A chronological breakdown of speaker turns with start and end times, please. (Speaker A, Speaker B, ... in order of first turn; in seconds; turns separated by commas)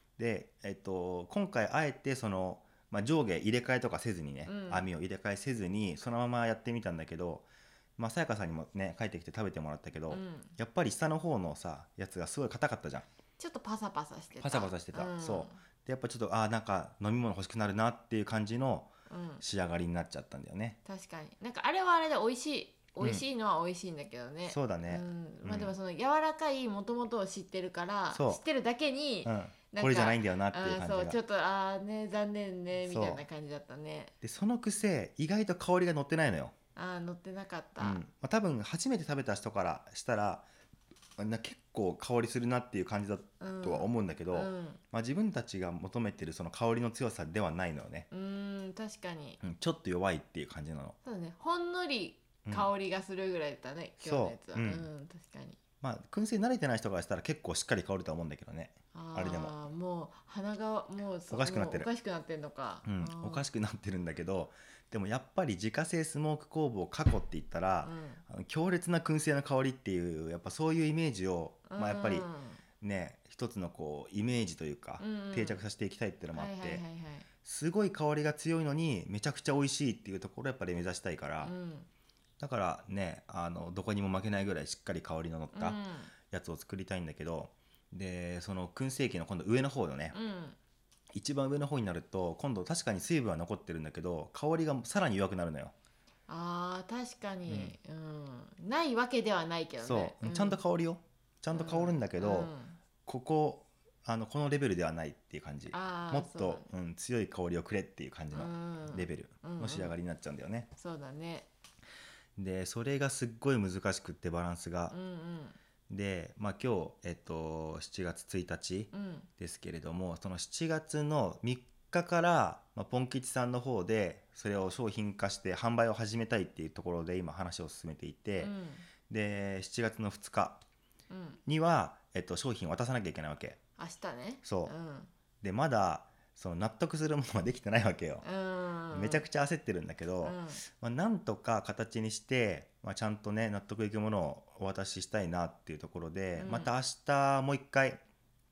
Speaker A: 0.2-13.1, Speaker B: 4.5-4.9, Speaker B: 10.1-10.5, Speaker B: 13.4-15.6, Speaker A: 14.4-20.8, Speaker B: 19.1-19.4, Speaker B: 20.8-34.1, Speaker A: 24.4-25.8, Speaker A: 28.1-28.4, Speaker A: 29.2-31.2, Speaker A: 32.8-33.2, Speaker A: 34.2-36.5, Speaker B: 36.7-38.0, Speaker A: 37.8-40.5, Speaker A: 41.2-48.1, Speaker B: 43.4-44.8, Speaker B: 48.1-49.4, Speaker A: 49.4-51.0, Speaker B: 51.0-55.6, Speaker A: 54.0-54.9, Speaker A: 55.8-59.5, Speaker B: 58.9-63.4, Speaker A: 61.3-61.9, Speaker A: 62.8-72.3, Speaker B: 67.8-68.2, Speaker B: 71.7-72.6, Speaker A: 72.8-76.8, Speaker B: 75.0-75.6, Speaker B: 76.3-77.3, Speaker A: 77.4-81.5, Speaker B: 81.4-81.9, Speaker A: 82.4-85.8, Speaker B: 85.5-86.1, Speaker A: 86.3-90.2, Speaker B: 90.1-90.6, Speaker A: 91.1-95.7, Speaker B: 96.3-100.6, Speaker A: 97.5-97.7, Speaker A: 99.8-102.5, Speaker B: 101.5-102.8, Speaker A: 103.0-110.7, Speaker B: 105.7-106.7, Speaker B: 108.3-109.9, Speaker B: 110.7-111.5, Speaker A: 112.3-115.0, Speaker B: 114.9-115.5, Speaker A: 115.9-128.5, Speaker B: 118.9-119.3, Speaker B: 128.4-128.9, Speaker A: 129.1-130.6, Speaker B: 131.1-131.4, Speaker A: 131.4-133.6, Speaker B: 133.8-135.1, Speaker A: 134.4-134.7, Speaker A: 135.4-138.2, Speaker B: 138.2-139.2, Speaker A: 138.9-148.0, Speaker B: 140.2-140.6, Speaker B: 146.3-146.7